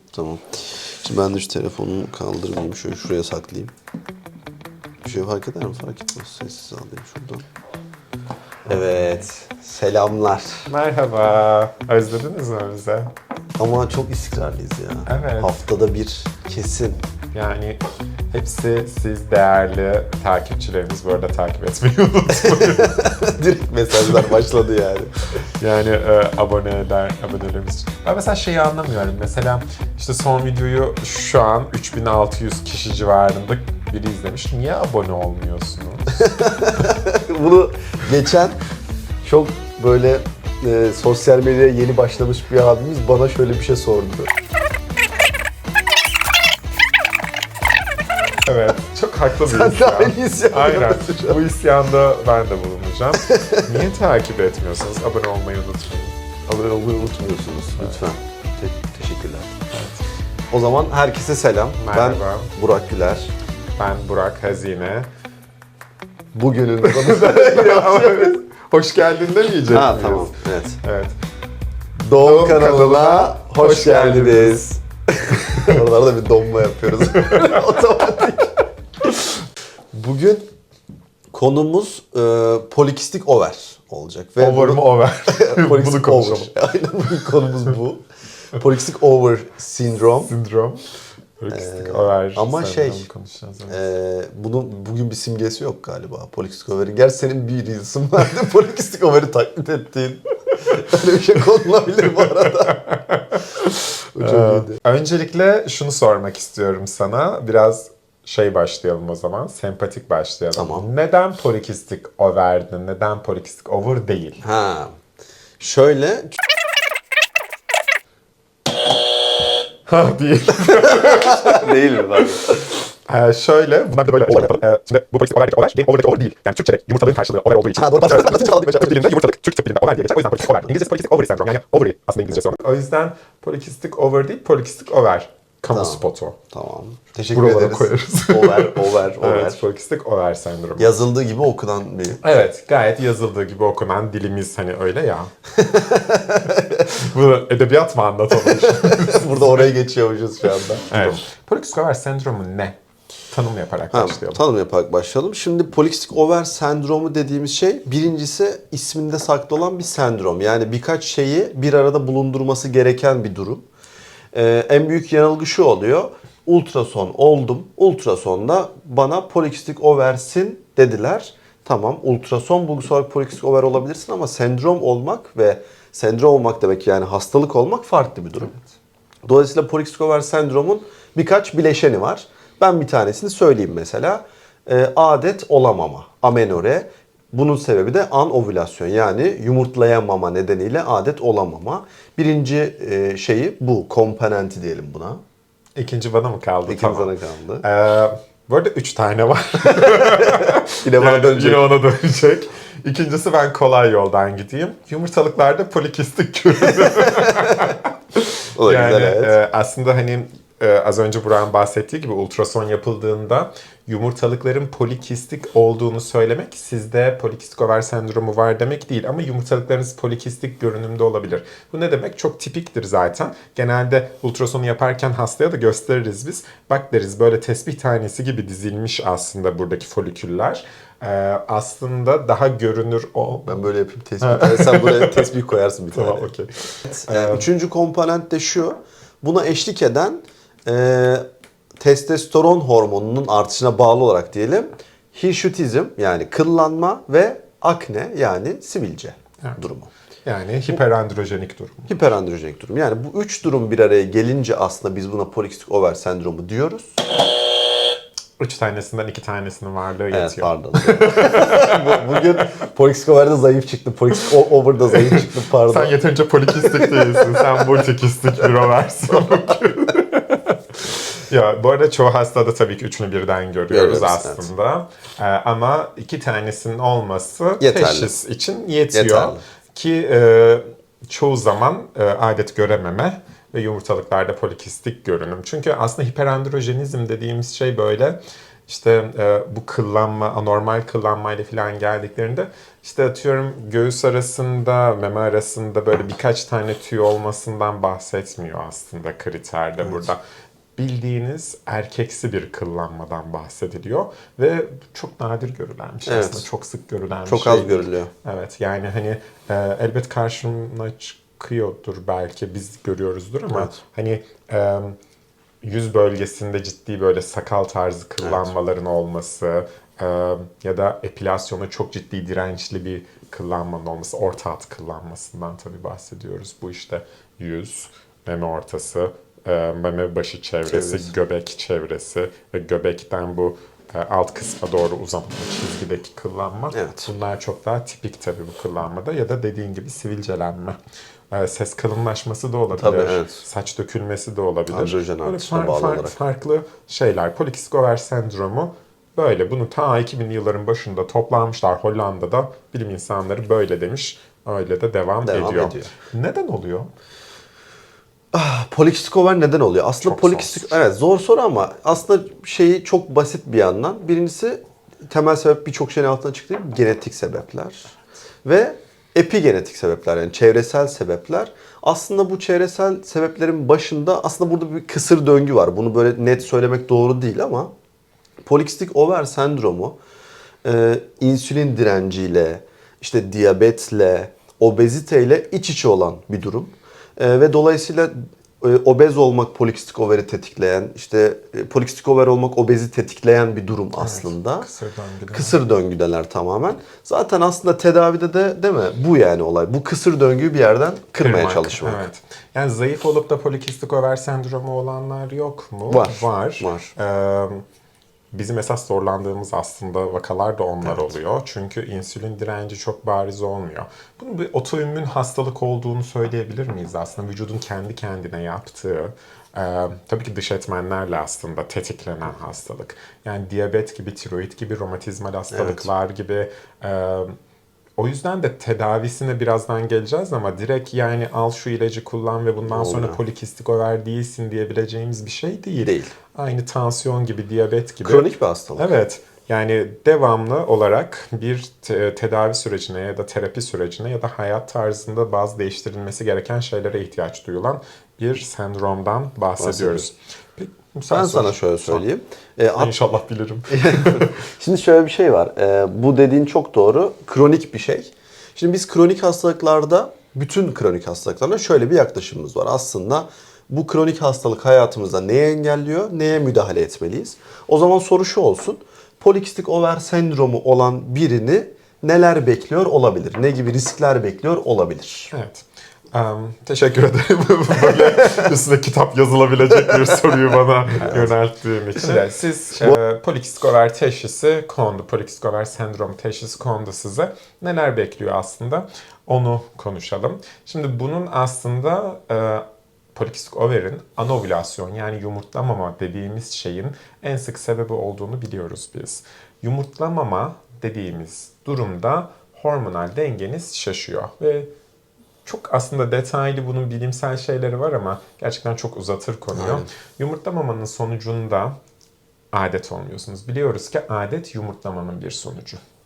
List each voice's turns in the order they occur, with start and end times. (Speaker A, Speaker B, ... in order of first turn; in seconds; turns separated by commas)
Speaker A: 0.1-3.7, Speaker A: 5.0-7.5, Speaker A: 8.7-10.7, Speaker B: 10.7-13.1, Speaker A: 13.6-17.0, Speaker B: 15.1-15.6, Speaker B: 17.3-17.8, Speaker B: 18.3-23.2, Speaker A: 22.5-25.3, Speaker B: 25.6-36.3, Speaker A: 36.2-38.6, Speaker A: 39.2-44.3, Speaker B: 48.5-56.1, Speaker A: 49.5-51.4, Speaker A: 53.3-53.6, Speaker A: 56.5-59.5, Speaker B: 59.7-60.0, Speaker A: 60.5-63.3, Speaker B: 61.8-62.5, Speaker B: 63.8-65.1, Speaker A: 66.3-68.4, Speaker B: 66.8-71.2, Speaker A: 69.7-70.8, Speaker A: 72.0-78.6, Speaker B: 72.2-74.6, Speaker B: 75.5-75.8, Speaker B: 77.1-77.7, Speaker A: 79.9-80.5, Speaker A: 81.3-88.0, Speaker B: 84.4-86.5, Speaker A: 88.5-90.3, Speaker B: 90.2-90.8, Speaker B: 91.4-93.9, Speaker A: 91.5-93.0, Speaker A: 93.7-102.8, Speaker B: 102.6-114.4, Speaker A: 104.2-104.7, Speaker A: 110.5-110.9, Speaker A: 114.4-115.0, Speaker A: 115.6-116.3, Speaker B: 119.9-122.0, Speaker A: 120.9-122.5, Speaker B: 123.1-136.4, Speaker A: 127.8-129.2, Speaker A: 135.7-139.6, Speaker B: 137.3-140.9, Speaker A: 140.8-142.5, Speaker B: 142.2-145.3, Speaker A: 145.6-146.9, Speaker B: 146.9-149.7, Speaker A: 148.4-151.2, Speaker B: 150.9-152.8, Speaker B: 153.3-154.4, Speaker A: 153.9-163.7, Speaker A: 164.3-178.7, Speaker A: 179.3-195.2, Speaker B: 195.8-197.1, Speaker A: 196.7-197.7, Speaker B: 197.6-233.6, Speaker A: 199.9-201.7, Speaker A: 207.1-207.4, Speaker A: 208.6-209.4, Speaker A: 233.4-236.3, Speaker B: 234.2-235.3, Speaker B: 235.9-237.5, Speaker A: 236.8-241.2, Speaker A: 241.8-249.9, Speaker B: 250.2-252.0, Speaker A: 251.9-256.9, Speaker B: 258.4-262.2, Speaker A: 260.1-265.9, Speaker B: 265.1-270.6, Speaker A: 266.5-267.6, Speaker B: 271.1-300.2, Speaker A: 273.7-274.5, Speaker A: 277.6-278.1, Speaker A: 278.9-279.4, Speaker B: 300.8-315.0, Speaker A: 306.1-306.5, Speaker A: 307.3-308.1, Speaker A: 313.5-313.8, Speaker B: 315.6-340.8, Speaker A: 318.2-318.5, Speaker A: 330.7-331.1, Speaker A: 336.7-337.1, Speaker B: 341.3-356.9, Speaker A: 342.8-343.4, Speaker A: 344.7-346.2, Speaker A: 355.2-355.9, Speaker A: 358.3-367.9, Speaker B: 360.0-360.8, Speaker A: 368.4-377.7, Speaker A: 378.5-380.0, Speaker A: 380.6-394.7, Speaker B: 394.0-395.6, Speaker A: 395.3-402.1, Speaker B: 401.2-407.6, Speaker A: 405.9-406.9, Speaker B: 408.3-427.3, Speaker A: 410.8-411.2, Speaker A: 425.5-425.9, Speaker B: 428.0-452.0, Speaker A: 432.7-433.2, Speaker A: 435.8-436.1, Speaker A: 438.0-438.9, Speaker A: 449.6-450.1, Speaker A: 451.1-452.9, Speaker B: 452.8-454.3, Speaker A: 453.7-475.3, Speaker B: 475.3-504.7, Speaker A: 481.0-481.4, Speaker A: 482.0-482.2, Speaker B: 505.5-511.8, Speaker A: 509.5-509.9, Speaker B: 512.5-515.8